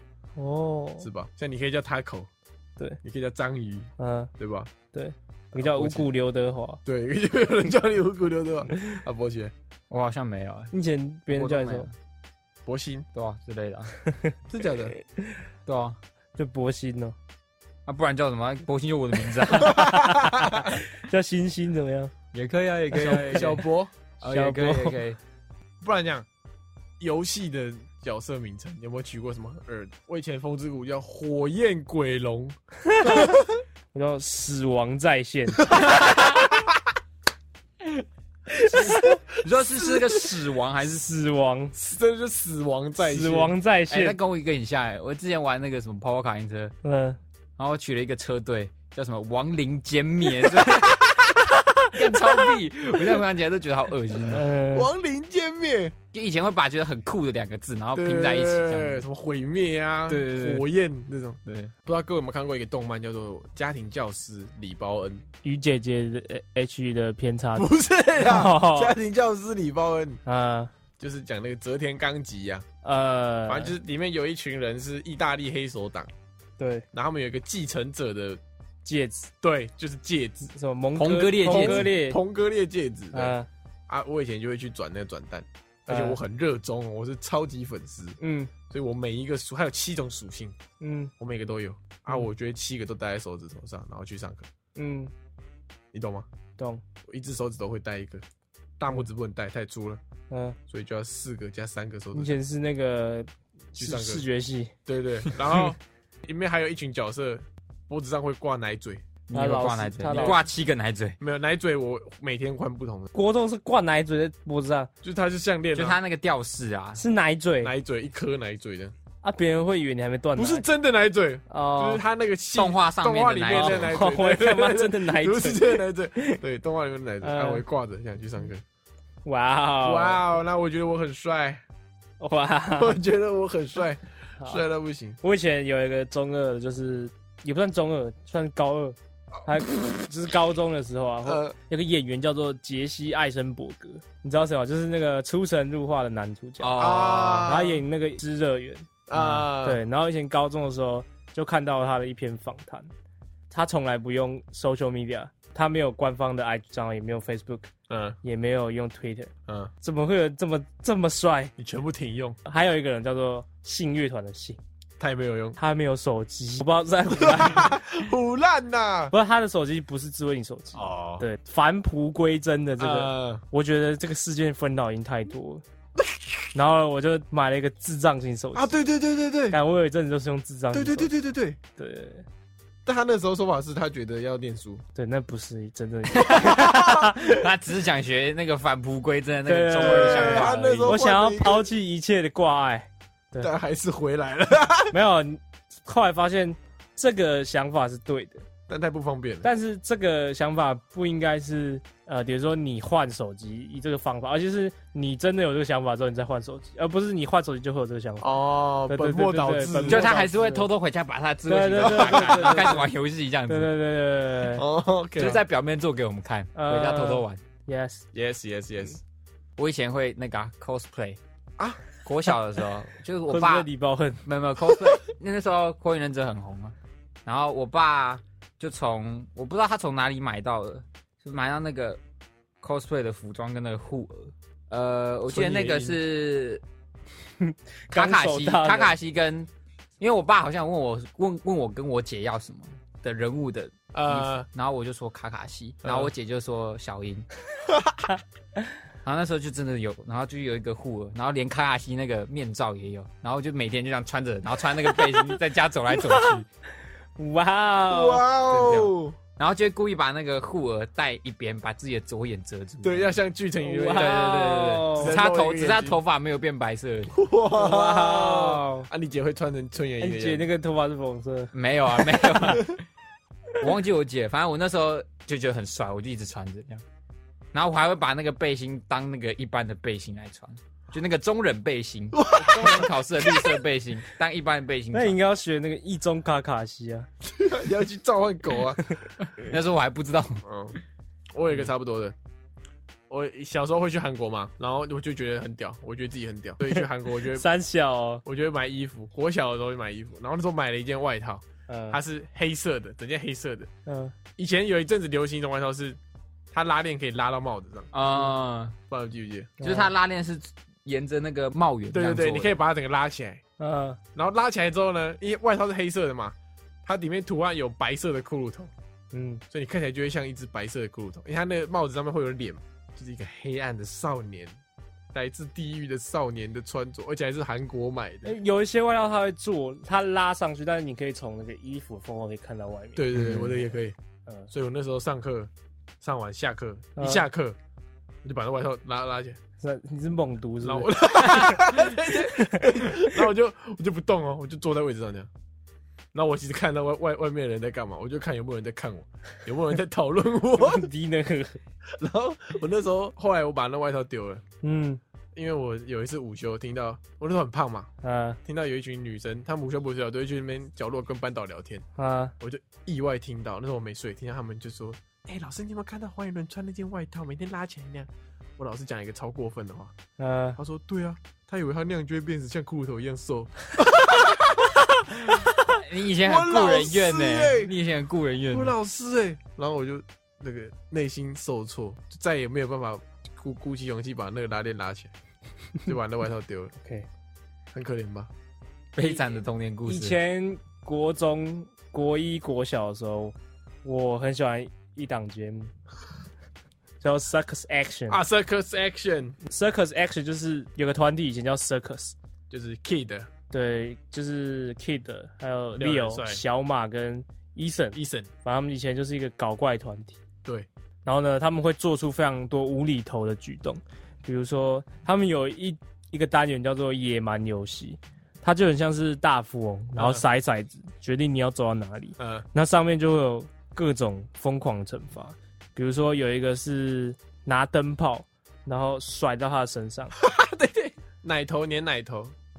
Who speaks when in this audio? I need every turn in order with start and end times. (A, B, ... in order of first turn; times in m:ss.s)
0:00.4-0:01.1 A
0:01.0-0:02.3 B
0:03.0-0:04.7 B
0:04.0-0:04.3 A
0:04.9-0:06.8 A
0:05.6-0:06.0 B
0:06.8-0:09.5 B
0:09.9-0:10.7 C
0:10.7-0:11.9 A
0:11.3-0:11.9 C
0:12.6-0:13.0 B
0:13.1-0:13.9 C
0:14.0-0:14.4 A
0:14.5-0:14.9 B
0:15.6-0:16.0 C
0:16.4-0:17.1 A
0:17.8-0:20.1 C
0:19.5-0:22.1 A
0:19.8-0:20.7 B
0:22.3-0:23.6 C
0:22.9-0:23.9 B
0:23.0-0:23.5 A
0:24.2-0:25.2 C
0:24.2-0:25.0 A
0:25.8-0:26.3 B
0:27.0-0:33.6 B
0:32.9-0:33.4 A
0:33.9-0:36.1 A
0:35.8-0:36.5 C
0:38.5-0:39.2 A
0:38.7-0:41.0 C
0:38.9-0:40.2 B
0:40.8-0:41.7 A
0:41.7-0:43.5 B
0:43.0-0:44.2 A
0:43.9-0:46.7 C
0:46.8-0:47.2 A
0:47.6-0:51.3 C
0:50.6-0:51.3 B
0:51.9-0:54.4 C
0:54.3-0:54.9 A
0:54.7-0:55.9 B
0:56.1-0:59.0 C
0:57.9-1:05.2 B
1:00.1-1:00.6 C
1:01.4-1:01.7 C
1:05.4-1:09.0 A
1:07.6-1:10.2 B
1:10.2-1:10.7 A
1:11.0-1:12.6 B
1:12.8-1:13.7 A
1:13.5-1:16.1 B
1:16.6-1:16.8 A
1:16.9-1:18.4 B
1:18.8-1:19.3 A
1:19.4-1:20.5 B
1:20.5-1:22.2 A
1:21.0-1:21.9 C
1:21.4-1:23.4 B
1:23.1-1:23.5 A
1:23.9-1:28.2 B
1:25.9-1:26.2 A
1:28.2-1:28.5 A
1:28.7-1:30.6 B
1:30.8-1:31.1 A
1:31.2-1:34.5 B
1:34.7-1:35.1 A
1:35.9-1:36.2 B
1:37.0-1:38.2 B
1:38.8-1:40.0 B
1:40.3-1:40.6 A
1:40.7-1:42.3 B
1:42.1-1:44.7 A
1:43.8-1:44.2 B
1:44.8-1:49.0 B
1:49.3-1:51.2 C
1:49.3-1:50.4 A
1:50.1-1:50.4 B
1:51.2-1:53.1 B
1:53.1-1:54.9 A
1:55.0-1:56.0 B
1:55.7-1:57.0 C
1:57.0-1:57.7 A
1:57.6-1:58.9 B
1:59.2-2:00.6 A
2:00.4-2:08.6 B
2:01.5-2:02.0 A
2:02.5-2:04.0 C
2:03.5-2:06.4 A
2:07.2-2:07.6 A
2:09.2-2:10.2 A
2:09.8-2:11.6 B
2:12.2-2:13.0 A
2:12.8-2:15.2 B
2:15.2-2:32.9 A
2:21.2-2:21.5 B
2:26.6-2:27.6 C
2:26.8-2:27.8 B
2:29.1-2:29.8 B
2:29.2-2:29.4 C
2:33.5-2:37.7 A
2:37.9-2:38.2 B
2:38.2-2:41.5 A
2:39.5-2:39.7 B
2:41.6-2:42.4 B
2:42.4-2:44.6 A
2:45.0-2:45.6 B
2:45.6-2:47.8 A
2:47.2-2:49.1 B
2:49.1-2:55.6 A
2:50.7-2:51.2 B
2:52.8-2:53.4 B
2:56.0-2:56.4 B
2:56.5-2:58.7 A
2:58.5-2:59.6 B
2:59.5-3:01.1 A
3:00.7-3:01.6 B
3:01.8-3:02.2 A
3:02.8-3:04.8 B
3:04.9-3:07.4 A
3:06.1-3:11.0 C
3:06.4-3:06.9 B
3:09.4-3:13.5 A
3:09.8-3:11.7 B
3:13.4-3:14.9 B
3:14.9-3:18.4 A
3:18.7-3:19.5 B
3:19.4-3:28.3 A
3:28.2-3:30.2 B
3:28.9-3:30.6 A
3:29.8-3:33.7 C
3:31.5-3:32.9 A
3:31.8-3:32.8 B
3:33.5-3:34.6 A
3:34.5-3:35.4 B
3:35.2-3:37.4 C
3:36.5-3:38.0 A
3:38.1-3:39.0 B
3:39.6-3:41.2 C
3:42.0-3:43.7 C
3:43.3-3:44.2 A
3:44.2-3:46.7 C
3:47.2-3:52.0 C
3:52.6-3:56.6 C
3:55.3-3:56.0 B
3:57.4-3:58.9 A
3:57.9-3:59.5 C
4:00.0-4:07.2 C
4:03.9-4:04.5 B
4:05.8-4:06.1 B
4:07.7-4:08.0 B
4:09.0-4:16.5 C
4:14.9-4:15.3 A
4:16.1-4:16.4 A
4:17.2-4:18.2 A
4:17.9-4:19.2 B
4:18.5-4:23.1 C
4:22.8-4:26.0 B
4:23.6-4:25.2 A
4:23.9-4:27.1 C
4:27.1-4:30.5 B
4:27.5-4:28.9 A
4:30.0-4:31.5 A
4:31.5-4:32.8 C
4:32.0-4:32.6 A
4:33.6-4:36.8 C
4:37.5-4:45.2 C
4:42.1-4:43.6 B
4:44.9-4:47.1 A
4:47.3-4:48.8 B
4:49.4-4:50.4 C
4:50.4-4:50.8 B
4:51.3-4:52.1 B
4:53.1-4:57.4 B
4:56.7-4:58.2 A
4:58.2-5:03.7 B
5:01.7-5:02.0 A
5:03.8-5:04.1 A
5:04.4-5:06.0 B
5:06.5-5:08.3 B
5:07.9-5:08.8 C
5:08.9-5:09.6 B
5:09.6-5:09.9 A
5:09.6-5:12.6 C
5:11.9-5:13.4 B
5:13.6-5:14.0 A
5:14.1-5:18.7 B
5:19.1-5:19.4 A
5:19.5-5:24.5 B
5:25.1-5:28.3 B
5:28.2-5:33.4 A
5:33.0-5:34.0 B
5:34.5-5:35.5 B
5:36.0-5:37.6 B
5:37.0-5:37.2 A
5:38.2-5:39.4 B
5:39.6-5:43.3 A
5:40.6-5:45.3 B
5:46.1-5:50.9 B
5:50.5-5:51.6 A
5:51.9-5:54.4 B
5:54.6-5:55.0 A
5:55.3-5:57.9 B
5:58.0-5:58.4 A
5:58.4-6:01.8 B
6:02.0-6:02.3 A
6:02.4-6:09.9 B
6:10.2-6:10.6 A
6:10.6-6:17.7 B
6:15.7-6:18.7 C
6:18.5-6:25.1 B
6:25.8-6:26.7 B
6:26.8-6:27.1 A
6:27.7-6:28.3 B
6:29.0-6:30.2 C
6:29.8-6:35.7 A
6:37.0-6:38.2 A
6:38.1-6:39.4 B
6:39.4-6:42.1 A
6:42.5-6:43.3 B
6:43.5-6:50.2 A
6:45.8-6:46.4 B
6:47.9-6:48.3 B
6:51.0-7:10.1 A
7:00.0-7:00.2 B
7:02.2-7:02.4 B
7:10.2-7:12.3 B